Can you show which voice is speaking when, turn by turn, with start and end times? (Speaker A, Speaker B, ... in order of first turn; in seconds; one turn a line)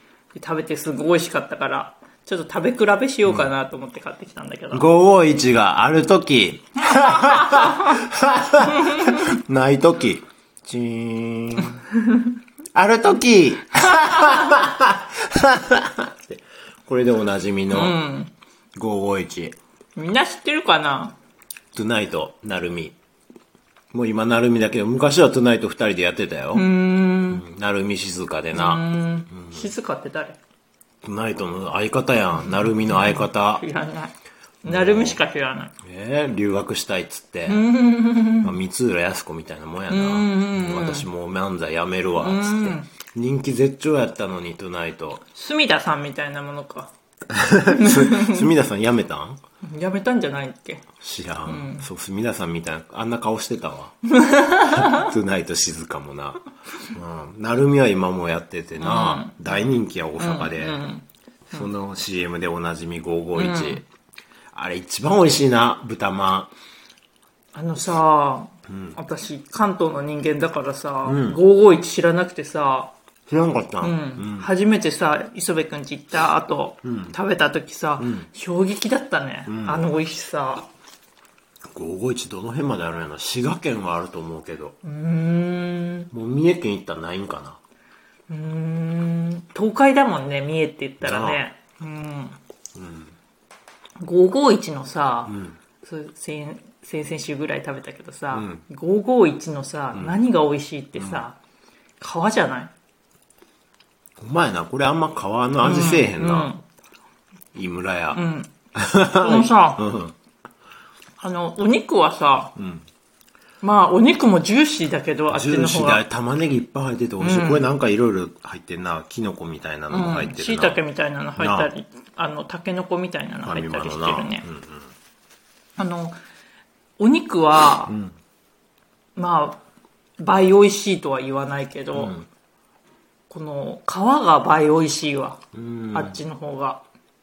Speaker A: 0.3-4.9
Speaker B: 3.2-3.5
Speaker B: 4.7-11.8
Speaker A: 6.9-7.9
Speaker A: 8.7-9.2
Speaker B: 12.7-17.9
Speaker A: 17.7-18.3
Speaker B: 18.8-19.6
Speaker A: 19.9-21.1
Speaker B: 21.7-22.9
Speaker B: 23.9-26.6
Speaker A: 26.5-27.4
Speaker B: 27.3-29.7
Speaker A: 28.5-30.4
Speaker B: 31.0-33.6
Speaker A: 32.4-34.1
Speaker B: 34.6-35.2
Speaker A: 34.6-35.7
Speaker B: 35.8-37.7
Speaker A: 37.5-38.5
Speaker B: 38.4-45.2
Speaker A: 39.9-41.1
Speaker A: 42.2-42.9
Speaker A: 45.3-46.9
Speaker B: 47.3-49.4
Speaker A: 47.7-48.5
Speaker A: 49.6-50.9
Speaker B: 51.0-54.0
Speaker A: 51.5-51.9
Speaker A: 54.1-55.1
Speaker B: 54.6-56.4
Speaker B: 56.9-60.8
Speaker A: 58.8-59.6
Speaker A: 60.2-61.7
Speaker B: 61.5-63.8
Speaker A: 63.4-63.8
Speaker B: 64.5-66.5
Speaker A: 67.5-72.9
Speaker B: 68.7-69.0
Speaker B: 71.0-71.4
Speaker B: 73.3-74.5
Speaker A: 73.8-80.7
Speaker B: 76.8-77.2
Speaker B: 78.0-78.3
Speaker B: 79.5-79.9
Speaker B: 81.7-84.8
Speaker A: 84.8-86.1
Speaker B: 86.1-87.6
Speaker A: 88.3-92.4
Speaker B: 91.0-91.4
Speaker B: 92.8-93.1
Speaker A: 94.0-101.4
Speaker B: 95.3-95.6
Speaker B: 98.3-98.6
Speaker B: 99.9-100.2
Speaker B: 100.9-101.2
Speaker A: 102.0-102.7
Speaker B: 104.2-106.5
Speaker A: 105.6-106.6
Speaker B: 107.5-108.2
Speaker A: 108.1-108.5
Speaker B: 108.8-110.1
Speaker A: 109.2-109.8
Speaker A: 111.2-112.5
Speaker B: 112.5-112.8
Speaker A: 113.6-116.0
Speaker B: 115.3-120.8
Speaker A: 117.2-117.7
Speaker A: 119.9-124.5
Speaker B: 121.4-121.7
Speaker B: 123.4-124.9
Speaker A: 125.8-126.2
Speaker A: 127.0-127.9
Speaker B: 127.9-128.1
Speaker A: 129.2-129.6
Speaker A: 130.2-132.1
Speaker B: 131.9-132.3
Speaker A: 133.3-135.4
Speaker B: 135.5-136.2
Speaker A: 135.9-136.8